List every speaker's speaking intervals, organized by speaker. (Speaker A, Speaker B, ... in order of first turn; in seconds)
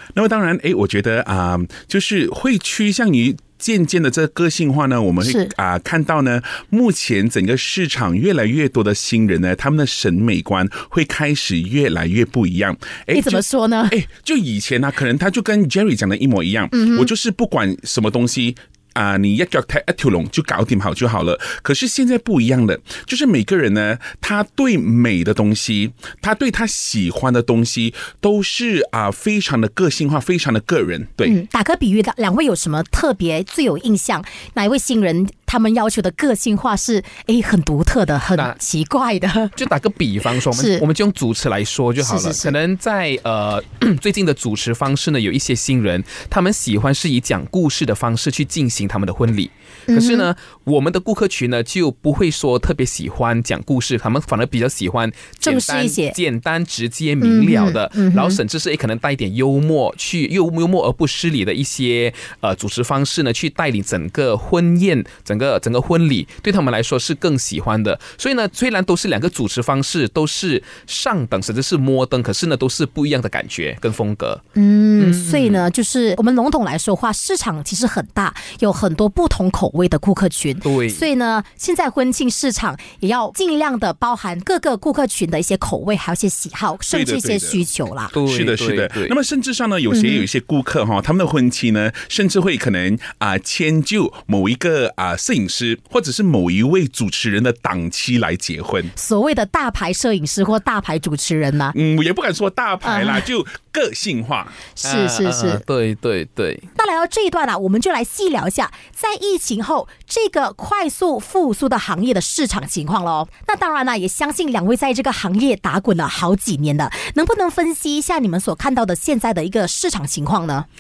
Speaker A: 0.1-31.4, 86.9-87.6, 88.2-98.9, 101.7-104.6
Speaker B: 5.2-5.5, 13.1-14.0, 16.7-17.1, 31.2-39.6, 40.5-40.8, 42.0-42.5, 49.9-50.3, 55.4-56.2, 57.2-58.4, 74.6-88.1, 89.9-90.2, 99.0-101.8, 102.8-103.2, 104.8-105.6, 106.8-120.7
Speaker C: 39.6-74.4, 75.0-75.7, 80.6-81.1, 88.1-89.2, 104.8-106.7